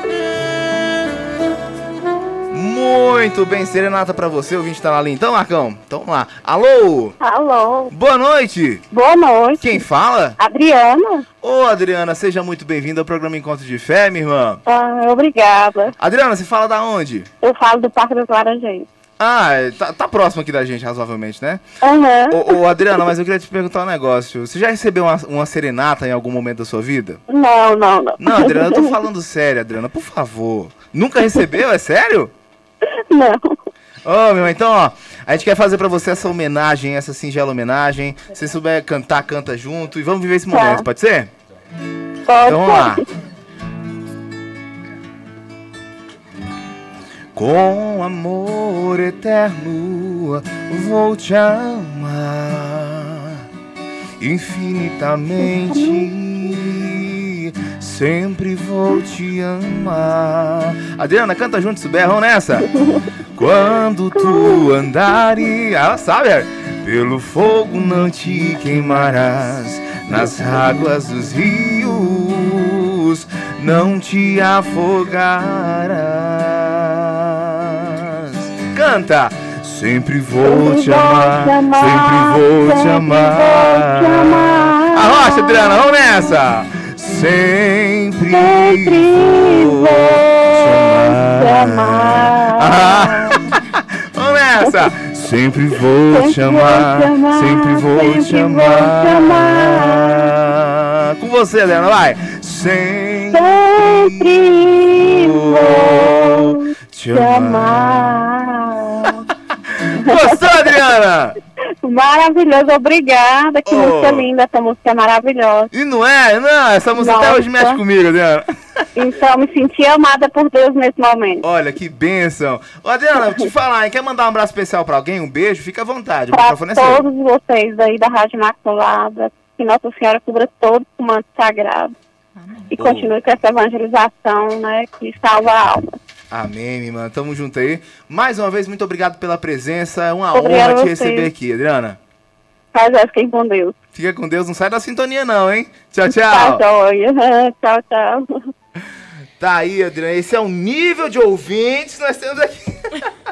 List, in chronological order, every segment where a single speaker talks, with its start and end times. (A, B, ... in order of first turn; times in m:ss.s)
0:02.5-0:07.2 A
0:07.2-0:07.9 B
0:07.9-0:08.8 A
0:08.9-0:09.8 B
0:09.6-0:10.4 A
0:10.4-0:11.2 B
0:11.4-0:14.6 A
0:14.6-0:15.9 B
0:16.0-0:17.3 A
0:17.4-0:18.9 B
0:19.2-0:21.6 A
0:21.8-0:22.6 B
0:22.3-0:27.2 A
0:27.3-0:28.9 B
0:28.2-0:32.3 A
0:33.1-0:33.6 B
0:34.0-0:41.3 A
0:40.5-0:40.8 B
0:42.2-0:43.0 B
0:42.4-0:43.0 A
0:47.3-0:53.4 A
0:54.2-1:02.7 A
0:55.6-0:56.1 B
1:02.7-1:03.1 B
1:03.4-1:48.3 A
1:04.2-1:04.6 B
1:20.4-1:25.8 B
1:28.3-1:33.5 B
1:36.1-1:40.4 B
1:43.3-1:49.2 B
1:49.8-1:51.4 A
1:49.9-1:50.4 B
1:51.8-1:55.7 B
1:53.6-1:54.3 A
1:55.7-1:58.4 A
1:57.0-1:57.8 B
1:58.9-2:01.4 B
2:01.4-2:07.1 A
2:06.3-2:11.9 B
2:12.7-2:13.1 A
2:12.7-2:15.8 B
2:16.3-2:22.0 A
2:20.3-2:21.3 B
2:22.7-2:23.8 B
2:23.9-2:26.6 A
2:26.1-2:28.3 B
2:29.4-2:32.9 A